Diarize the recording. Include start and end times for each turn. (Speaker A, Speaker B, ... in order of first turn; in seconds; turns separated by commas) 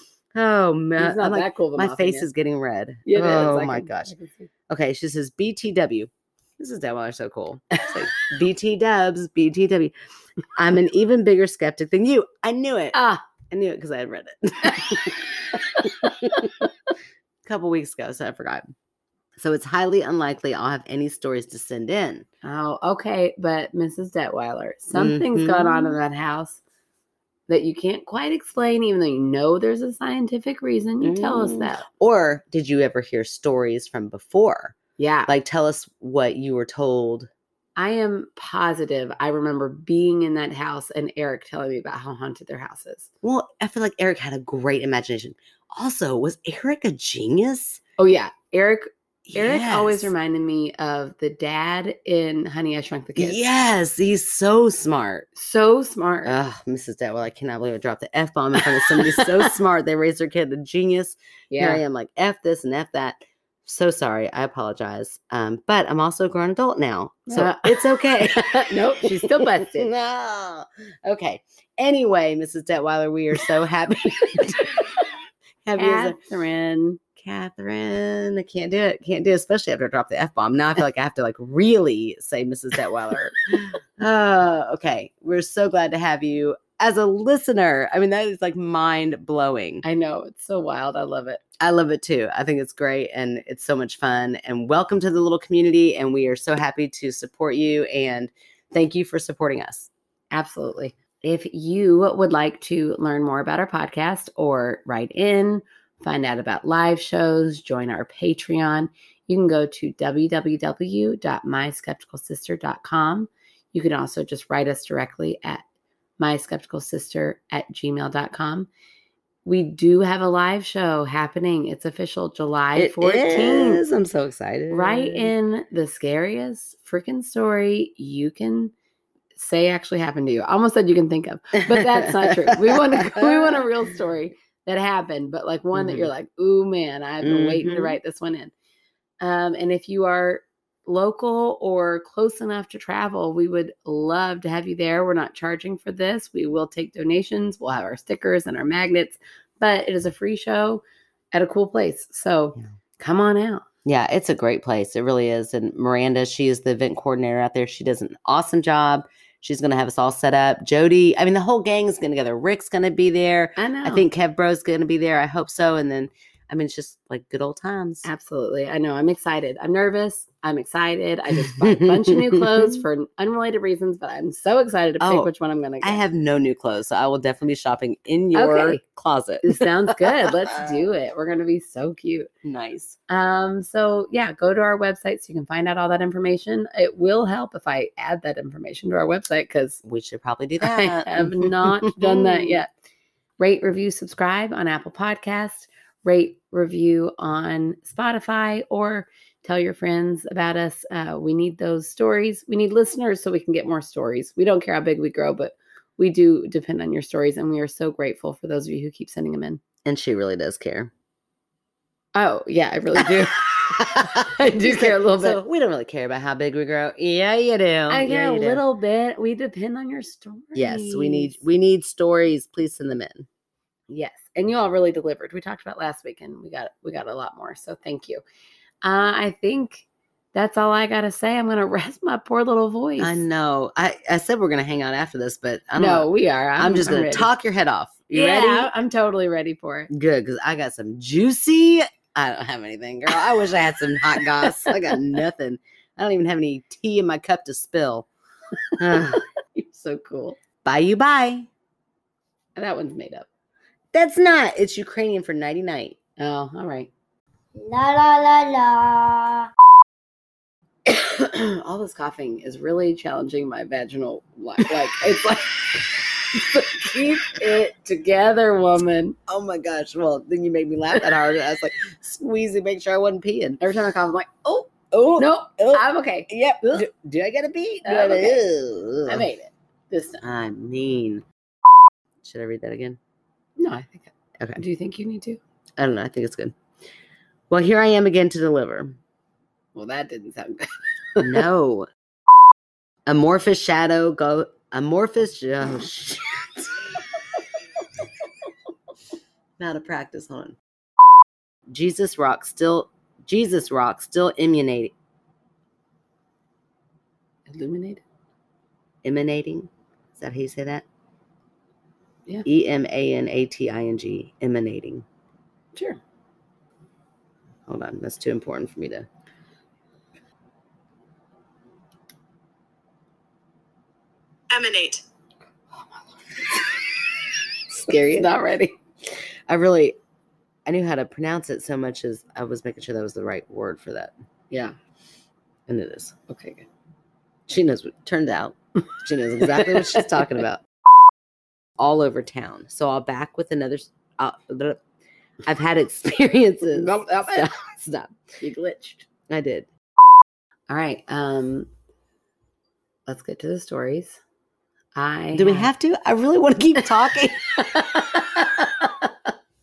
Speaker A: 0.3-4.1, Speaker B: 1.0-2.3, Speaker B: 3.0-4.5, Speaker A: 4.7-9.9, Speaker A: 10.5-13.0, Speaker B: 12.9-13.2, Speaker A: 13.5-16.5, Speaker B: 14.6-16.5, Speaker A: 17.4-18.7, Speaker A: 19.4-22.2, Speaker B: 22.4-26.6, Speaker A: 24.9-26.0, Speaker B: 27.5-31.8, Speaker A: 31.0-34.8, Speaker B: 35.0-35.3, Speaker A: 35.3-37.3, Speaker B: 37.8-43.1, Speaker A: 43.2-47.8, Speaker B: 48.0-53.4, Speaker A: 49.3-50.1, Speaker A: 53.2-55.3, Speaker B: 55.4-56.4, Speaker A: 56.2-74.9, Speaker B: 58.6-59.5, Speaker B: 61.5-61.8, Speaker B: 67.3-69.9, Speaker A: 75.6-76.2, Speaker B: 75.8-77.0, Speaker A: 77.2-89.8, Speaker B: 89.8-91.4, Speaker A: 91.6-99.9, Speaker B: 100.3-115.6, Speaker B: 116.2-118.7, Speaker B: 119.4-123.8, Speaker A: 122.8-125.3, Speaker B: 124.7-128.7, Speaker B: 129.3-138.5, Speaker A: 131.6-133.7, Speaker A: 135.7-136.1, Speaker A: 137.2-138.0, Speaker B: 139.2-150.8, Speaker B: 151.3-153.6, Speaker A: 153.8-168.1, Speaker B: 163.6-164.1, Speaker B: 168.0-176.0, Speaker A: 171.3-172.8, Speaker A: 175.0-175.3, Speaker A: 175.8-180.8, Speaker B: 178.3-178.8, Speaker B: 179.4-182.3, Speaker A: 182.4-183.0, Speaker B: 183.1-189.8, Speaker A: 189.8-192.6, Speaker B: 190.6-192.7, Speaker B: 193.4-209.6, Speaker A: 209.8-210.9, Speaker B: 212.1-215.4, Speaker A: 213.0-218.6, Speaker B: 217.9-221.4, Speaker A: 220.5-223.3, Speaker B: 223.9-228.2, Speaker B: 228.8-233.2, Speaker A: 233.0-238.7, Speaker B: 235.8-237.3, Speaker B: 238.1-239.9, Speaker A: 239.9-248.1, Speaker B: 244.4-245.0, Speaker A: 248.8-249.2, Speaker B: 248.9-250.4, Speaker A: 250.6-251.5, Speaker B: 252.6-253.3, Speaker A: 253.9-255.9, Speaker B: 256.2-256.9, Speaker C: 257.5-259.5, Speaker B: 260.9-269.2, Speaker A: 269.3-273.6, Speaker B: 273.6-276.8, Speaker A: 274.9-279.3, Speaker B: 277.8-278.4, Speaker B: 279.1-280.2, Speaker A: 280.2-281.2, Speaker A: 282.2-283.0, Speaker B: 283.6-285.4, Speaker A: 285.8-286.5, Speaker A: 287.5-289.0, Speaker B: 289.7-291.4, Speaker A: 291.2-291.9, Speaker A: 293.1-297.0, Speaker A: 299.6-300.6, Speaker A: 301.7-304.9, Speaker B: 307.5-308.0, Speaker A: 309.0-310.8, Speaker A: 312.4-315.0, Speaker B: 315.7-316.0, Speaker A: 317.7-319.1, Speaker B: 324.6-324.9, Speaker B: 326.3-326.7, Speaker B: 327.7-328.7, Speaker A: 329.5-330.0, Speaker A: 330.6-334.1, Speaker A: 335.7-336.1, Speaker B: 336.3-336.6, Speaker A: 337.5-340.6, Speaker B: 339.5-340.3, Speaker A: 341.8-344.8, Speaker A: 345.4-348.1, Speaker B: 346.7-347.5, Speaker B: 348.4-349.1, Speaker A: 349.3-349.7, Speaker B: 350.7-351.7, Speaker B: 353.1-354.2, Speaker B: 354.9-355.7, Speaker A: 355.3-358.7, Speaker B: 357.7-358.9